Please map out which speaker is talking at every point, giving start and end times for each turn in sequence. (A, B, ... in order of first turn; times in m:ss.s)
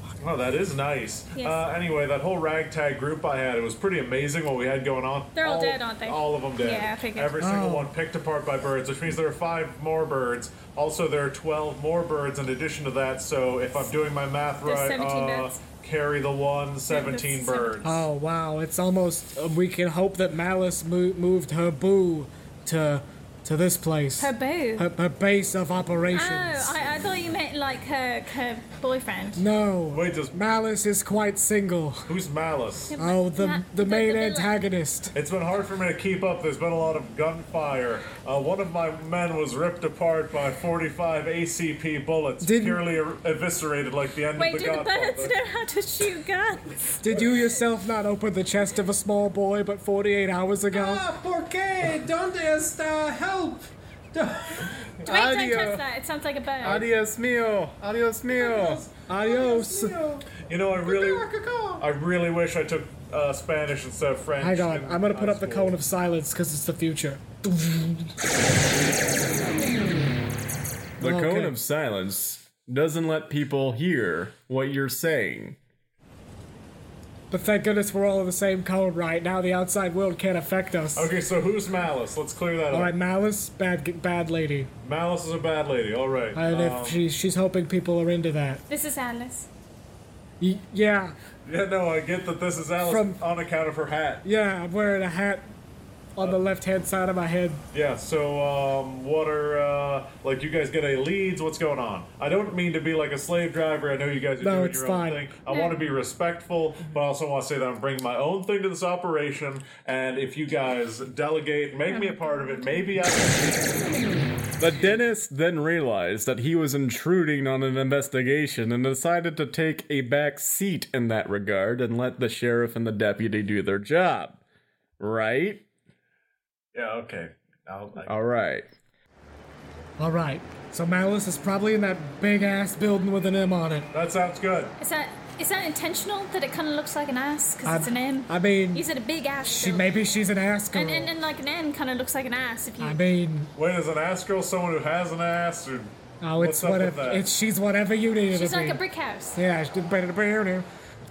0:00.2-0:18.0 A
0:01.4-0:01.6 B
0:05.3-0:07.4 B
0:07.4-0:07.9 C
0:14.6-0:15.6 B
0:16.9-0:17.8 B
0:17.8-0:26.8 C
0:24.2-0:24.9 B
0:26.1-0:29.4 B
0:29.4-0:32.1 C
0:29.9-0:30.4 A
0:32.1-0:32.9 A
0:32.9-0:34.6 B
0:32.9-0:35.1 C
0:35.1-0:45.4 A
0:42.4-0:42.8 C
0:44.4-0:47.0 B
0:47.0-0:51.1 C
0:50.7-0:55.1 D
0:55.0-0:56.8 B
0:55.1-0:55.8 E
0:56.6-0:58.8 E
0:58.3-1:00.3 D
0:59.1-1:00.0 C
1:00.4-1:01.3 A
1:00.8-1:01.8 D
1:01.8-1:05.8 A
1:04.4-1:08.1 C
1:11.0-1:11.6 C
1:11.0-1:15.6 E
1:17.3-1:21.1 C
1:21.0-1:22.9 A
1:22.7-1:24.7 C
1:24.8-1:27.0 A
1:26.3-1:28.6 C
1:28.7-1:29.5 B
1:30.4-1:31.2 C
1:31.4-1:34.2 A
1:32.8-1:33.2 C
1:34.2-1:35.5 C
1:36.2-1:37.6 C
1:37.7-1:53.8 A
1:44.4-1:45.3 C
1:45.5-1:45.7 B
1:54.6-2:04.4 E
2:05.0-2:05.6 E
2:06.7-2:08.1 A
2:08.0-2:08.6 E
2:10.0-2:13.9 C
2:13.9-2:14.8 A
2:14.8-2:19.9 B
2:17.6-2:18.9 C
2:19.4-2:21.1 C
2:20.7-2:23.0 B
2:22.8-2:23.5 C
2:23.6-2:27.2 A
2:26.2-2:28.8 C
2:28.3-2:29.4 B
2:29.3-2:30.6 C